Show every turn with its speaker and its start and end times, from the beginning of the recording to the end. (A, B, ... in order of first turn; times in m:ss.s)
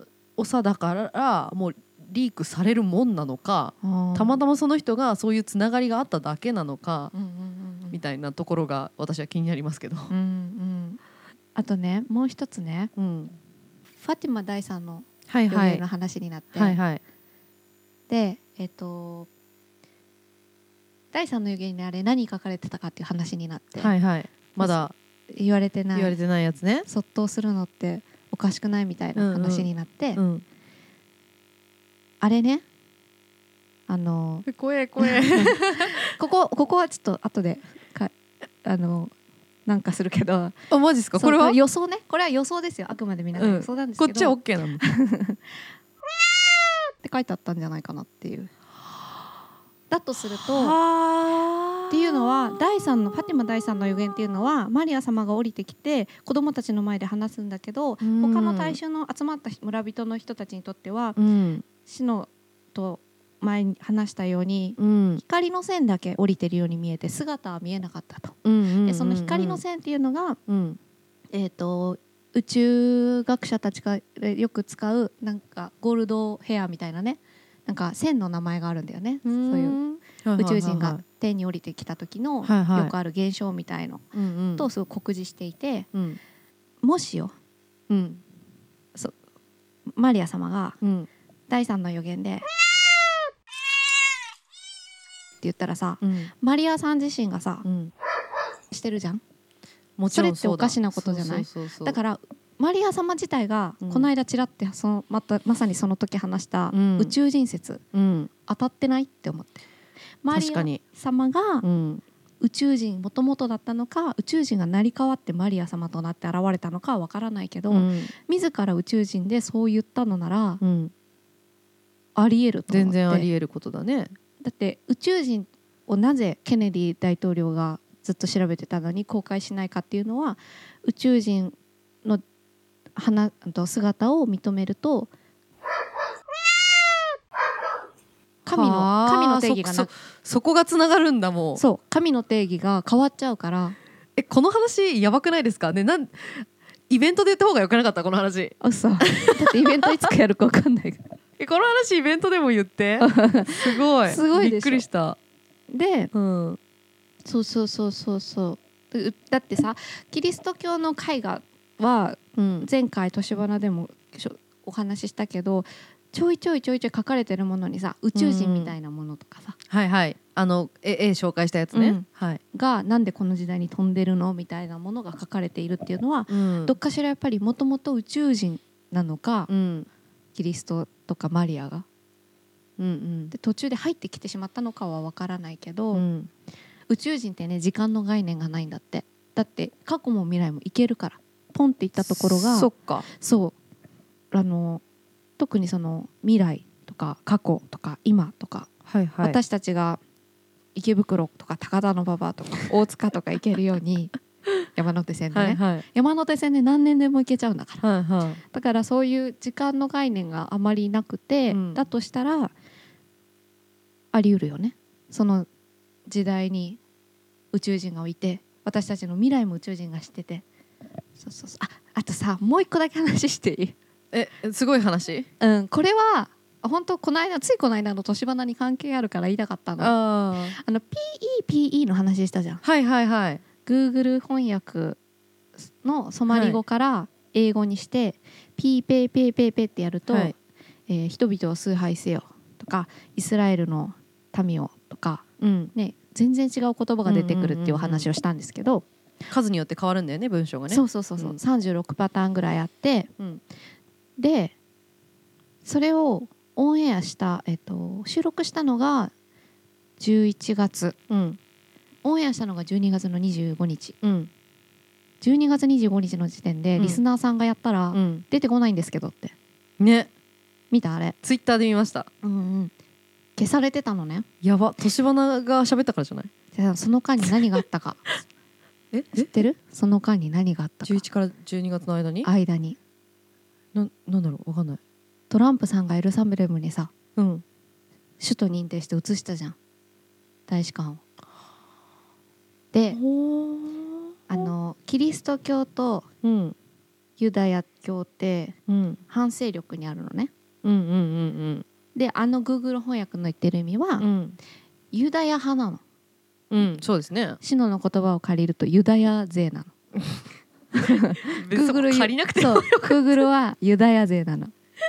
0:00.4-0:07.1 A
0:03.8-0:04.4 B
0:07.1-0:08.0 B
0:07.9-0:10.1 A
0:10.1-0:11.0 B
0:11.6-0:12.9 B
0:13.0-0:13.4 A
0:14.0-0:16.8 B
0:15.3-0:15.8 A
0:16.5-0:17.0 A
0:18.1-0:19.3 B
0:21.1-0:23.9 B
0:23.8-0:24.9 A
0:24.5-0:26.2 B
0:26.0-0:26.9 A
0:26.9-0:30.2 B
0:29.2-0:30.4 A
0:32.2-0:32.6 B
0:33.9-0:34.5 B
0:34.5-0:36.1 A
0:35.0-0:39.1 B
0:39.7-0:40.6 B
0:40.7-0:41.6 A
0:41.2-0:45.6 B
0:43.4-0:44.8 A
0:47.0-0:48.5 B
0:49.9-0:50.8 B
0:50.4-0:52.6 A
0:51.9-1:10.4 B
0:58.0-0:58.8 A
1:01.2-1:01.6 A
1:04.8-1:05.2 A
1:08.4-1:09.6 A
1:10.5-1:10.8 A
1:11.3-1:19.8 B
1:19.2-1:21.0 A
1:20.4-1:25.9 B
1:22.4-1:22.9 A
1:24.1-1:24.7 A
1:25.9-1:26.2 A
1:26.8-1:27.4 B
1:27.9-1:28.2 A
1:30.0-1:30.8 B
1:30.8-1:31.1 A
1:31.5-1:32.5 B
1:35.4-1:37.7 B
1:36.0-1:36.3 A
1:37.6-1:37.9 A
1:38.7-1:39.2 B
1:40.0-1:42.0 A
1:40.1-1:47.8 B
1:43.8-1:44.1 A
1:46.7-1:47.2 A
1:47.9-1:48.3 A
1:48.5-1:49.6 B
1:50.2-1:51.6 B
1:50.3-1:50.8 A
1:51.6-1:52.0 A
1:52.4-2:00.6 B
1:57.7-1:58.1 A
2:00.6-2:00.9 A
2:02.2-2:03.3 B
2:02.7-2:04.1 A
2:04.4-2:12.2 B
2:13.0-2:15.1 B
2:18.5-2:19.9 B
2:18.5-2:21.6 A
2:21.6-2:23.8 B
2:24.2-2:29.6 A
2:28.6-2:31.1 B
2:31.4-2:35.2 A
2:33.0-2:34.8 B
2:35.7-2:36.1 B
2:36.1-2:36.6 A
2:37.2-2:49.6 B
2:42.4-2:42.7 A
2:48.2-2:48.7 A
2:49.7-2:52.4 A
2:51.7-2:59.5 B
2:56.3-2:56.8 A
2:59.5-2:59.9 A
3:00.4-3:01.8 B
3:02.8-3:03.3 A
3:03.3-3:06.1 B
3:05.9-3:06.3 A
3:06.9-3:13.6 B
3:12.0-3:13.1 A
3:14.3-3:14.8 B
3:15.4-3:18.7 B
3:18.9-3:19.4 A
3:19.2-3:20.0 B
3:20.8-3:24.2 B
3:24.7-3:27.8 B
3:25.3-3:25.8 A
3:27.8-3:28.4 A
3:28.5-3:32.5 B
3:31.5-3:31.8 A
3:34.1-3:35.5 B
3:36.1-3:36.8 B
3:37.5-3:40.4 B
3:41.2-3:43.8 B
3:44.1-3:45.3 A
3:45.4-3:50.0 B
3:49.8-3:50.6 A
3:50.5-3:52.6 B
3:52.6-3:53.4 A
3:53.6-3:55.0 B
3:55.6-4:00.3 B
3:56.3-3:56.6 A
4:00.1-4:00.3 A
4:00.9-4:08.8 B
4:05.4-4:05.7 A
4:07.1-4:08.1 A
4:09.3-4:11.4 A
4:10.7-4:13.1 B
4:14.2-4:14.6 B
4:15.6-4:19.1 B
4:20.0-4:21.0 B
4:21.1-4:21.4 A
4:22.0-4:24.0 B
4:24.0-4:24.3 A
4:25.2-4:29.4 B
4:27.9-4:28.2 A
4:29.8-4:30.1 A
4:30.7-4:31.2 B
4:31.2-4:32.1 A
4:32.2-4:32.7 B
4:33.4-4:34.3 B
4:34.4-4:36.3 A
4:36.5-4:38.1 B
4:38.9-4:39.3 A
4:39.2-4:41.0 B
4:40.8-4:42.3 A
4:42.2-4:42.8 B
4:43.7-4:44.8 A
4:45.3-4:46.9 B
4:47.2-4:47.4 A
4:48.2-4:49.6 B
4:50.5-4:51.0 B
4:52.7-4:53.0 B
4:52.9-4:54.5 A
4:54.3-4:56.1 B
4:56.2-4:56.6 A
4:57.2-4:58.6 B
4:58.7-4:59.0 A
4:59.1-5:00.3 B
5:00.6-5:01.6 A
5:02.0-5:04.1 B
5:04.0-5:04.4 A
5:04.9-5:05.8 B
5:06.5-5:07.4 A
5:07.4-5:09.7 B
5:10.7-5:14.5 B
5:10.8-5:13.3 A